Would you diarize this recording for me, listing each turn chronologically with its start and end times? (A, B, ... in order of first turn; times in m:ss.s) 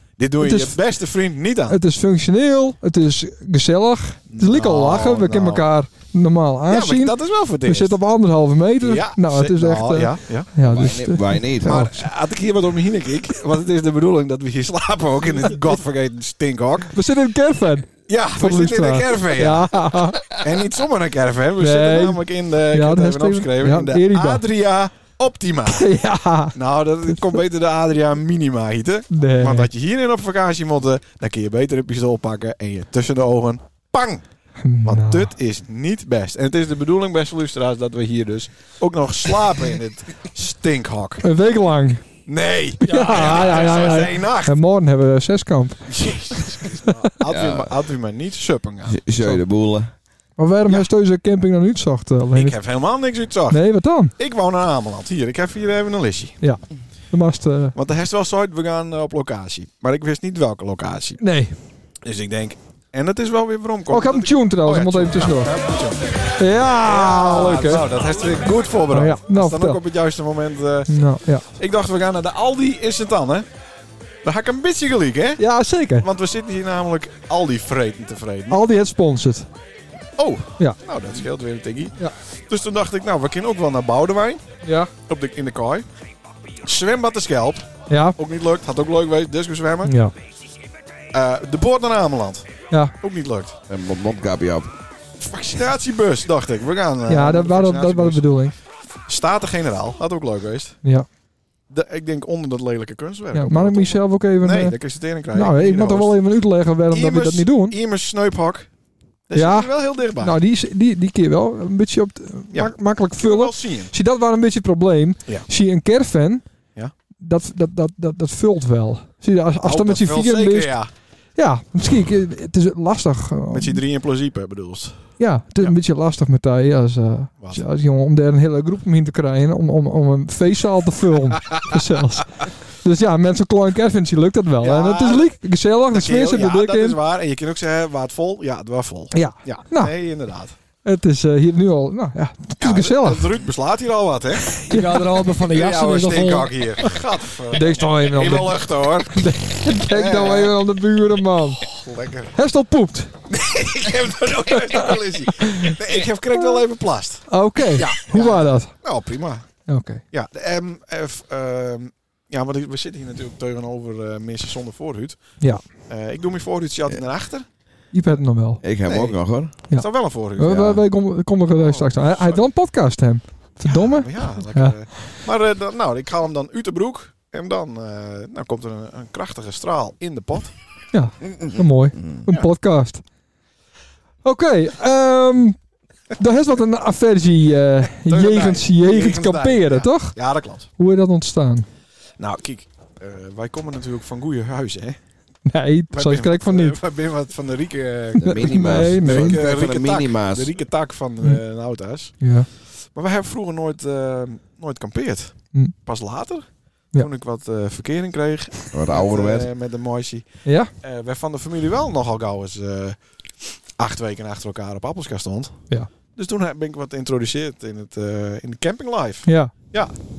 0:00.2-0:01.8 A
0:00.4-0:00.8 B
0:01.7-0:12.0 B
0:04.3-0:05.6 A
0:06.7-0:08.0 A
0:08.8-0:10.5 A
0:10.6-0:11.8 C
0:11.6-0:16.9 A
0:16.9-0:20.3 B
0:18.1-0:25.9 A
0:21.6-0:24.4 B
0:25.7-0:27.4 B
0:26.5-0:34.2 A
0:29.1-0:29.7 B
0:34.6-0:35.3 B
0:34.8-0:41.2 A
0:41.2-0:42.1 B
0:42.2-0:44.6 A
0:42.8-0:46.1 B
0:42.8-0:44.0 D
0:45.9-0:49.0 A
0:47.2-0:47.7 C
0:48.9-0:49.9 C
0:50.4-0:52.6 B
0:52.3-0:53.6 A
0:53.5-0:54.1 B
0:54.2-0:56.4 A
0:56.4-0:57.8 B
0:57.7-1:01.2 A
1:01.2-1:01.5 B
1:02.0-1:06.2 A
1:03.9-1:05.5 B
1:06.4-1:07.9 B
1:06.8-1:13.4 A
1:08.9-1:09.8 B
1:10.9-1:11.4 B
1:14.2-1:15.4 A
1:15.4-1:16.1 B
1:16.0-1:18.6 A
1:18.5-1:19.5 B
1:20.2-1:24.5 A
1:24.6-1:24.9 B
1:25.0-1:25.8 A
1:26.6-1:29.9 A
1:27.9-1:28.2 B
1:29.8-1:30.1 B
1:31.1-1:32.5 A
1:33.0-1:33.6 A
1:33.7-1:34.7 C
1:35.2-1:38.3 A
1:37.1-1:38.5 B
1:39.0-1:40.8 A
1:41.7-1:46.2 A
1:43.3-1:47.8 B
1:46.9-1:48.7 A
1:49.3-1:50.3 A
1:49.3-1:56.4 B
1:52.5-1:53.9 A
1:57.2-2:00.8 B
1:59.6-2:00.9 A
2:01.4-2:03.8 B
2:03.5-2:05.8 A
2:05.2-2:17.0 B
2:14.6-2:15.4 A
2:15.9-2:20.6 A
2:19.1-2:19.9 B
2:20.8-2:23.2 B
2:22.6-2:24.6 A
2:24.6-2:26.6 D
2:24.6-2:25.0 B
2:25.4-2:29.2 A
2:27.5-2:31.7 B
2:29.8-2:30.5 A
2:31.7-2:32.3 A
2:32.3-2:33.1 B
2:33.3-2:47.4 A
2:34.8-2:35.7 B
2:37.3-2:38.8 B
2:39.6-2:40.0 B
2:45.4-2:45.7 B
2:47.9-2:48.6 B
2:48.6-2:49.6 C
2:48.8-2:50.8 A
2:49.7-2:54.8 B
2:50.4-2:50.8 C
2:51.5-2:52.4 A
2:53.6-3:00.5 A
3:00.9-3:03.0 B
3:01.3-3:02.2 C
3:04.2-3:05.6 B
3:06.2-3:10.2 B
3:08.0-3:10.7 A
3:10.8-3:11.7 B
3:12.2-3:15.0 A
3:15.5-3:16.8 B
3:15.9-3:33.0 A
3:18.2-3:19.4 B
3:18.2-3:20.5 C
3:22.2-3:22.5 B
3:28.7-3:29.5 C
3:30.4-3:30.7 B
3:33.8-3:35.6 A
3:36.1-3:40.0 A
3:39.2-3:39.5 B